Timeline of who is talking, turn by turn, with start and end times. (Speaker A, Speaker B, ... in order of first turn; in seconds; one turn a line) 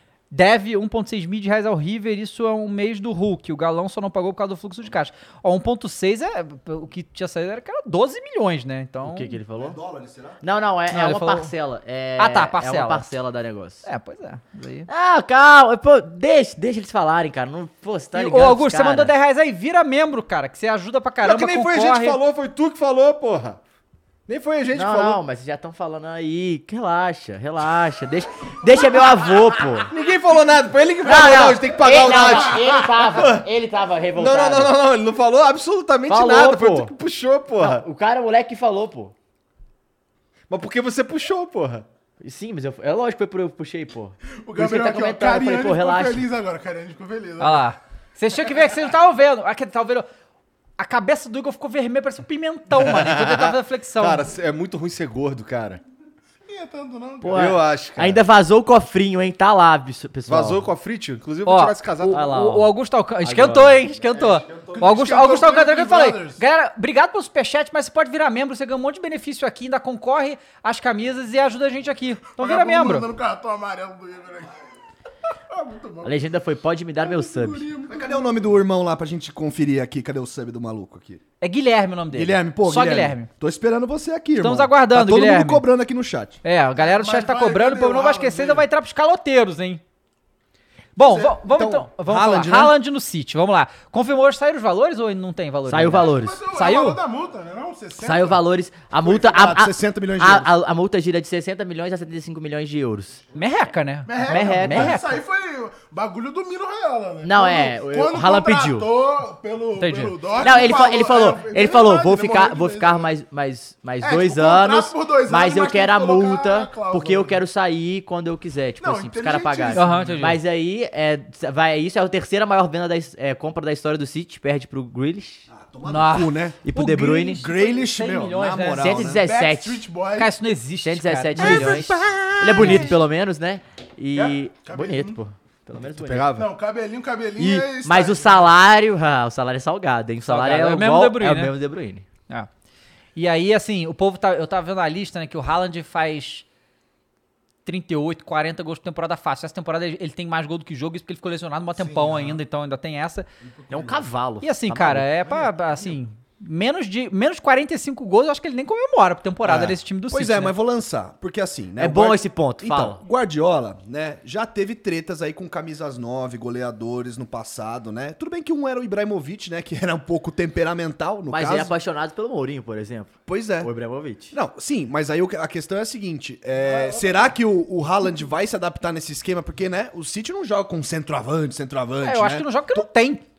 Speaker A: 0.3-9.3
Speaker B: 9.0-9.8
Speaker C: 9.5-10.4
Speaker B: 10.4-13.8
Speaker A: 10.9-11.5
Speaker A: 12.2-13.1
Speaker A: 13.8-14.9
Speaker B: 14.9-19.1
Speaker A: 18.1-22.2
Speaker D: 21.2-23.6
Speaker D: 24.3-25.2
Speaker B: 24.7-29.9
Speaker D: 29.9-33.5
Speaker B: 31.0-34.8
Speaker D: 34.1-37.8
Speaker B: 36.1-36.9
Speaker B: 37.6-39.1
Speaker D: 40.5-41.9
Speaker B: 42.2-46.3
Speaker E: 44.4-47.7
Speaker A: 47.4-50.1
Speaker A: 50.8-54.2
Speaker D: 52.8-55.8
Speaker E: 56.5-57.6
Speaker B: 57.2-60.6
Speaker D: 57.3-58.2
Speaker D: 60.3-62.3
Speaker A: 61.5-73.1
Speaker B: 62.1-62.7
Speaker B: 63.3-63.6
Speaker D: 63.4-63.7
Speaker E: 64.8-66.4
Speaker E: 72.4-74.5
Speaker E: 75.5-76.2
Speaker B: 76.0-77.7
Speaker E: 77.0-78.3
Speaker C: 77.9-81.2
Speaker A: 81.4-83.3
Speaker C: 82.1-86.4
Speaker A: 84.4-85.7
Speaker A: 86.4-89.8
Speaker E: 86.8-88.7
Speaker A: 91.0-97.0
Speaker C: 91.0-92.8
Speaker B: 95.7-96.5
Speaker E: 95.8-98.4
Speaker B: 98.0-103.2
Speaker C: 99.0-100.5
Speaker A: 103.3-105.2
Speaker E: 104.1-113.1
Speaker B: 104.2-105.0
Speaker B: 107.2-108.9
Speaker A: 109.8-110.2
Speaker B: 110.3-125.5
Speaker E: 114.0-117.4
Speaker E: 118.8-120.2
Speaker A: 119.7-120.4
Speaker C: 125.5-129.2
Speaker A: 125.9-128.9
Speaker B: 126.6-127.5
Speaker B: 128.8-129.9
Speaker E: 129.0-130.4
Speaker A: 130.2-132.0
Speaker B: 130.8-136.3
Speaker E: 131.4-131.7
Speaker A: 132.6-132.9
Speaker E: 132.6-132.9
Speaker E: 134.1-135.2
Speaker D: 135.8-136.5
Speaker E: 136.3-138.5
Speaker B: 137.4-142.1
Speaker A: 140.2-141.5
Speaker A: 143.2-146.4
Speaker A: 147.7-153.3
Speaker E: 151.8-152.4
Speaker E: 153.7-154.0
Speaker B: 153.7-155.1
Speaker A: 154.4-160.5
Speaker C: 159.4-171.7
Speaker B: 161.8-163.0
Speaker B: 171.3-174.3
Speaker C: 173.3-173.7
Speaker C: 174.3-182.8
Speaker E: 176.7-177.2
Speaker A: 182.0-183.2